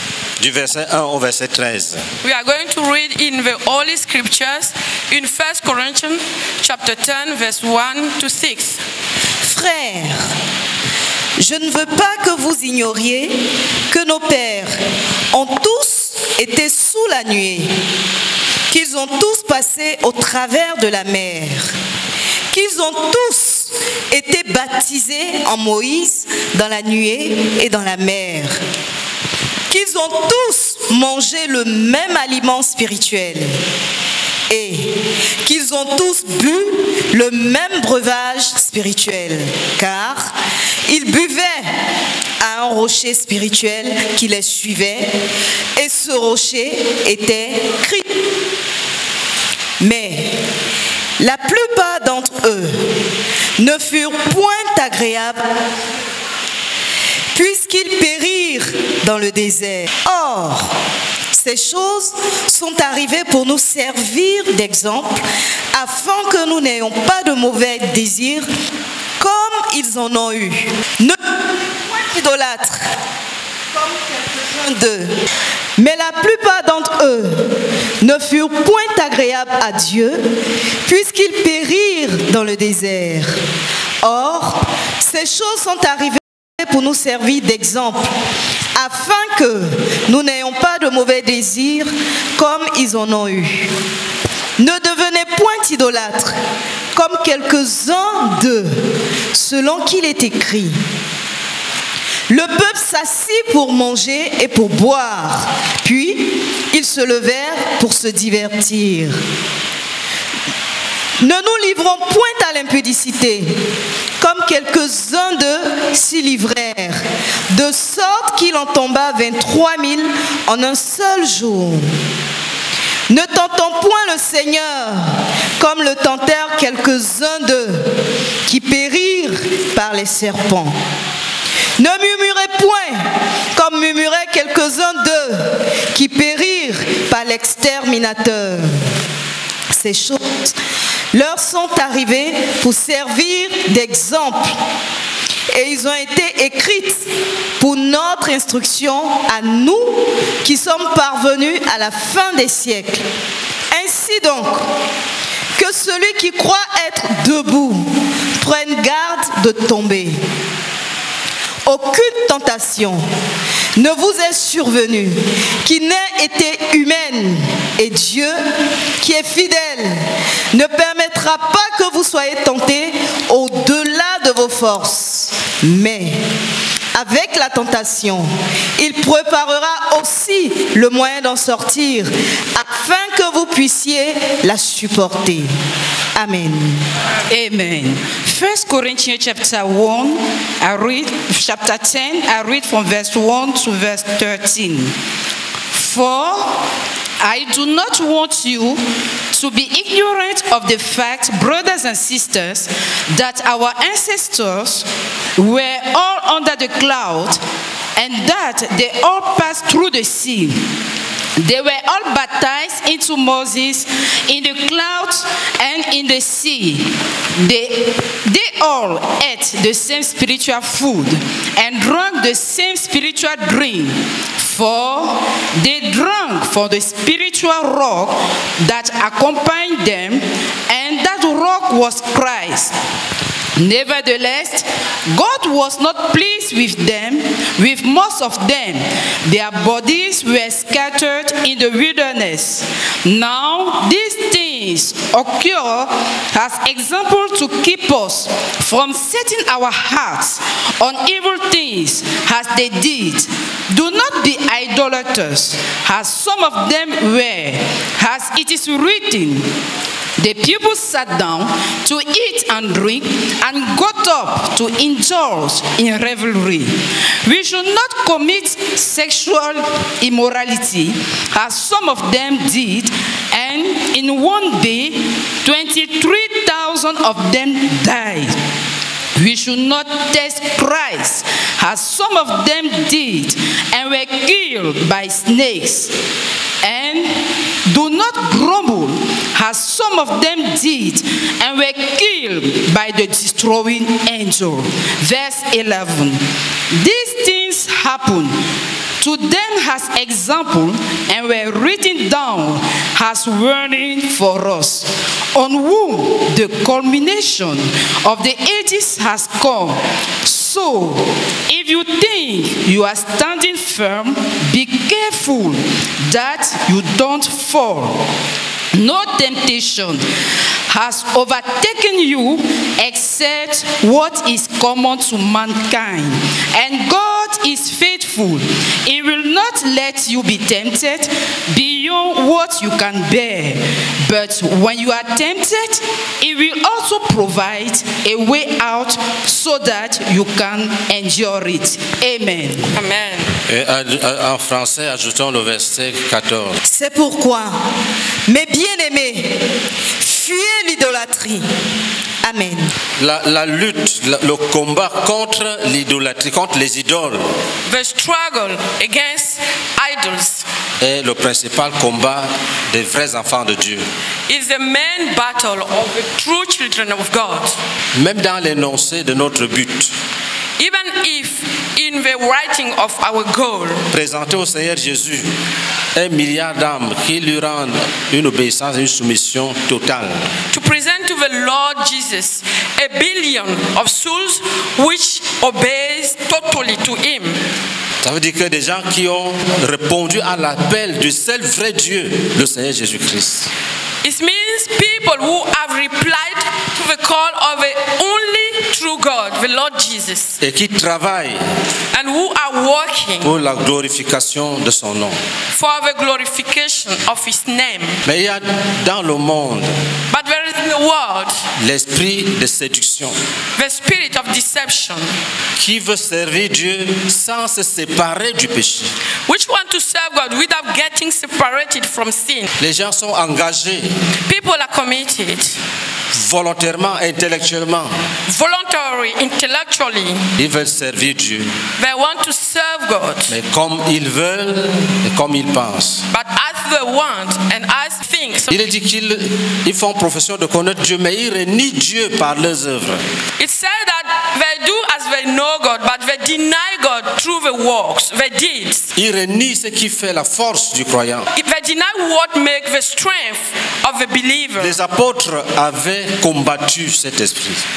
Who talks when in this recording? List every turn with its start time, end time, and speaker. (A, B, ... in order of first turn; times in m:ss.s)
0:00.4-0:02.0 A
0:02.2-0:08.8 B
0:09.4-0:10.2 C
0:11.4-0:14.7 C
0:15.3-0:17.7 C
0:18.7-0:21.7 C
0:22.5-0:28.6 C
0:29.7-0:33.6 C
0:34.5-0:40.3 C
0:40.9-0:41.7 C
0:42.4-0:45.1 C
0:45.8-0:48.1 C
0:49.8-0:50.4 C
0:51.2-0:52.8 C
0:53.6-0:55.4 C
0:57.3-1:00.7 C
1:01.3-1:08.5 C
1:09.2-1:12.8 C
1:13.7-1:15.1 C
1:15.8-1:20.2 C
1:20.8-1:23.3 C
1:24.0-1:28.1 C
1:28.7-1:33.7 C
1:34.6-1:36.4 C
1:36.9-1:38.8 C
1:39.3-1:40.8 C
1:42.3-1:49.2 C
1:51.2-1:53.5 C
1:54.2-2:01.9 C
2:03.1-2:08.0 C
2:08.5-2:10.8 C
2:11.8-2:18.7 C
2:19.7-2:20.6 C
2:21.1-2:24.5 C
2:25.5-2:27.0 C
2:27.6-2:33.0 C
2:33.7-2:34.6 C
2:35.6-2:40.2 C
2:41.6-2:43.0 C
2:43.8-2:48.4 C
2:49.0-2:56.2 C
2:56.9-3:05.5 C
3:06.1-3:06.8 C
3:07.3-3:14.9 D
3:15.7-3:16.6 D
3:17.2-3:18.8 D
3:19.3-3:27.4 D
3:28.0-3:30.6 D
3:31.4-3:52.7 D
3:53.6-4:19.5 D
4:20.2-4:38.3 D
4:39.2-4:45.9 D
4:46.6-4:56.2 D
4:56.7-4:58.4 D
4:59.0-5:18.0 D
5:18.7-5:20.0 D
5:20.7-5:42.7 D
5:42.7-5:43.4 B
5:43.5-5:46.6 A
5:46.6-5:47.6 C
5:48.3-5:49.4 C
5:50.0-5:51.4 C
5:52.2-5:52.7 C
5:53.0-5:57.4 A
5:57.7-6:00.4 B
6:00.8-6:03.9 A
6:04.3-6:07.6 B
6:07.9-6:09.9 A
6:10.6-6:13.9 B
6:13.9-6:15.4 A
6:15.9-6:20.3 A
6:20.5-6:27.4 B
6:28.0-6:33.5 A
6:34.0-6:40.4 B
6:40.4-6:41.4 A
6:41.9-6:43.3 B
6:43.2-6:45.2 A
6:45.5-6:48.0 B
6:48.0-6:49.7 A
6:50.1-6:51.4 B
6:51.6-6:53.2 A
6:53.6-6:55.1 B
6:55.6-6:58.9 A
6:59.3-7:02.5 B
7:02.6-7:03.9 A
7:04.2-7:05.6 B
7:06.1-7:08.0 A
7:08.2-7:10.3 B
7:10.4-7:11.6 A
7:11.8-7:13.4 B
7:13.3-7:16.0 A
7:16.1-7:18.5 B
7:18.5-7:23.0 A
7:23.4-7:28.9 B
7:28.9-7:31.3 A
7:31.3-7:34.8 B
7:34.6-7:37.6 A